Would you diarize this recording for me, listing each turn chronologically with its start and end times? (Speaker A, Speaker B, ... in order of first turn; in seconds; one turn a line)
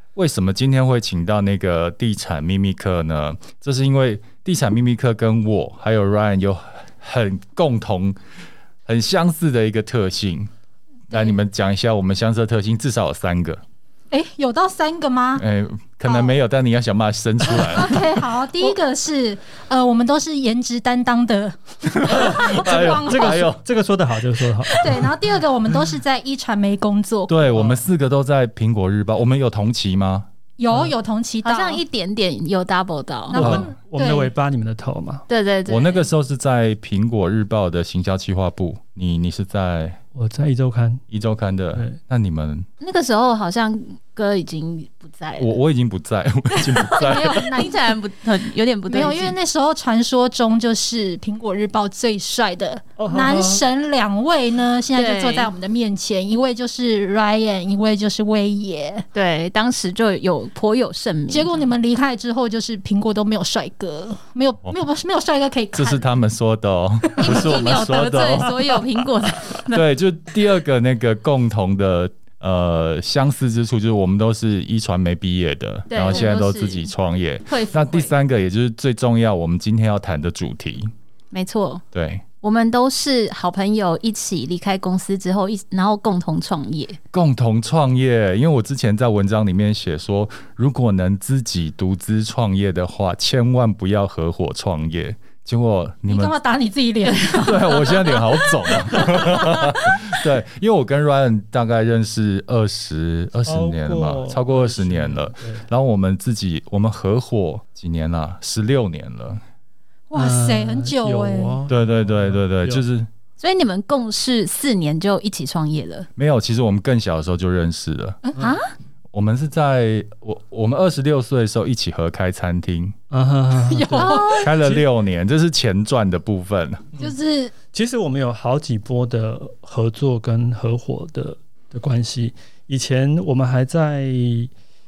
Speaker A: 0.2-8.2
Speaker A: 8.9-10.5
Speaker A: 11.1-13.6
Speaker B: 14.1-15.4
Speaker A: 15.4-18.1
Speaker B: 16.1-16.3
Speaker B: 17.5-23.5
Speaker A: 21.9-23.6
Speaker C: 22.3-25.1
Speaker B: 24.8-27.4
Speaker A: 27.3-30.3
Speaker C: 27.5-27.8
Speaker B: 30.6-31.8
Speaker D: 31.4-33.4
Speaker B: 33.3-34.3
Speaker C: 33.3-35.2
Speaker A: 33.3-33.7
Speaker D: 35.3-36.1
Speaker A: 35.7-40.0
Speaker C: 40.1-41.0
Speaker A: 41.1-42.7
Speaker D: 42.8-45.5
Speaker A: 45.4-47.5
Speaker D: 46.5-49.3
Speaker B: 47.0-47.9
Speaker B: 48.9-59.0
Speaker C: 53.0-53.6
Speaker D: 54.9-55.5
Speaker D: 59.1-61.6
Speaker B: 61.3-66.1
Speaker A: 65.8-68.8
Speaker D: 67.2-69.8
Speaker A: 69.7-80.9
Speaker D: 75.9-76.9
Speaker D: 77.5-78.1
Speaker D: 81.3-81.8
Speaker A: 81.9-82.2
Speaker D: 82.4-87.0
Speaker A: 87.1-96.3
Speaker B: 96.1-98.3
Speaker A: 97.3-109.4
Speaker C: 103.5-105.7
Speaker B: 110.1-111.6
Speaker C: 110.2-112.8
Speaker A: 111.7-113.1
Speaker D: 113.4-116.1
Speaker A: 116.2-118.2
Speaker D: 118.4-118.7
Speaker A: 119.1-122.9
Speaker C: 123.1-124.8
Speaker B: 123.7-124.4
Speaker D: 123.9-124.5
Speaker A: 124.3-126.9
Speaker B: 127.0-127.5
Speaker C: 127.7-134.5